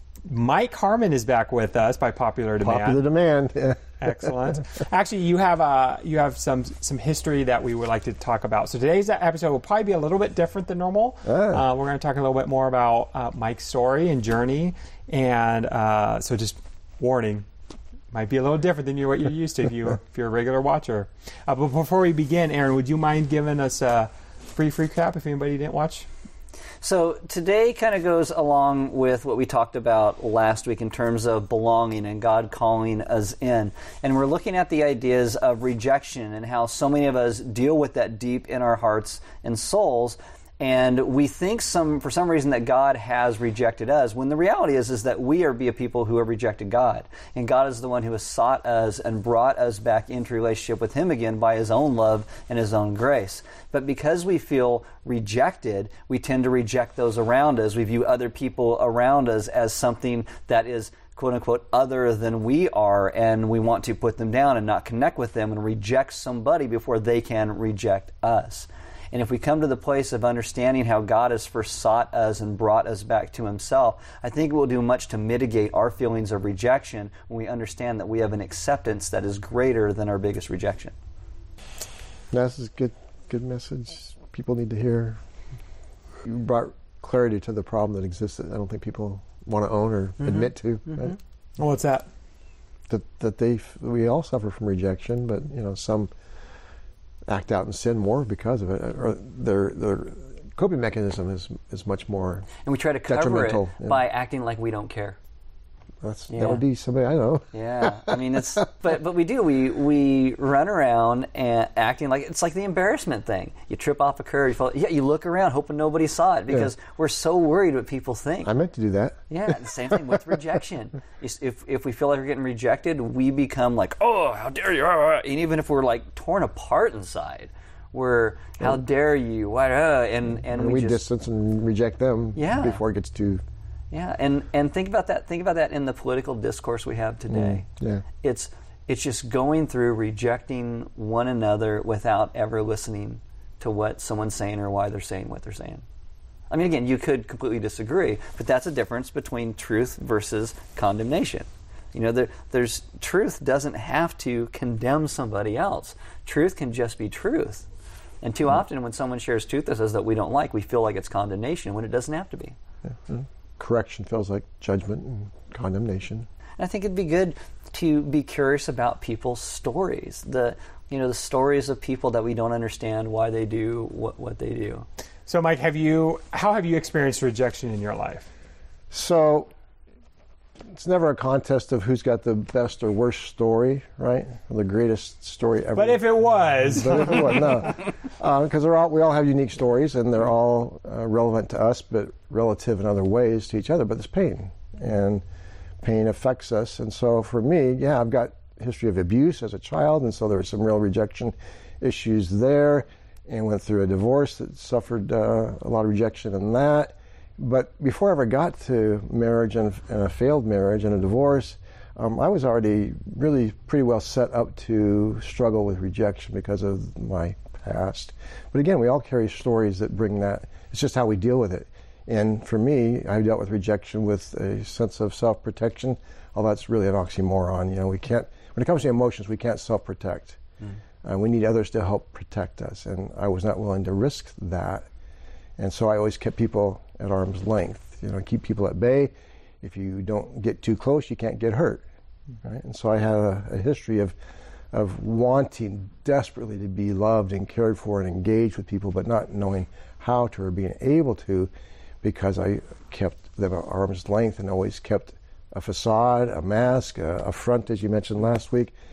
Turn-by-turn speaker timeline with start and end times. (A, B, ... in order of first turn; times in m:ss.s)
0:00.3-0:03.0 A
0:02.6-0:04.3 B
0:04.0-0:17.4 A
0:11.3-0:11.7 B
0:18.1-0:26.1 A
0:26.8-1:21.0 C
1:22.3-1:25.2 B
1:26.2-1:31.2 B
1:30.2-1:31.0 C
1:31.6-1:32.1 A
1:32.9-1:36.1 B
1:37.3-1:42.5 B
1:42.6-1:45.2 C
1:43.1-1:44.0 B
1:46.0-1:48.4 B
1:46.3-1:46.6 C
1:47.5-1:58.5 C
1:58.4-1:59.2 B
1:59.3-2:11.1 C
2:10.5-2:13.4 B
2:12.4-2:12.8 C
2:13.9-2:17.7 C
2:17.3-2:18.0 B
2:18.2-2:25.8 C
2:26.5-2:37.7 C
2:38.2-2:42.6 C
2:42.9-2:46.3 B
2:46.6-2:54.9 C
2:55.3-2:58.3 A
2:58.9-2:59.5 B
3:00.7-3:06.1 B
3:05.8-3:07.4 A
3:06.7-3:15.2 B
3:15.8-3:50.4 B
3:51.0-3:54.9 B
3:55.6-4:01.8 B
4:02.4-4:04.2 B
4:04.7-4:11.5 B
4:12.0-4:18.7 B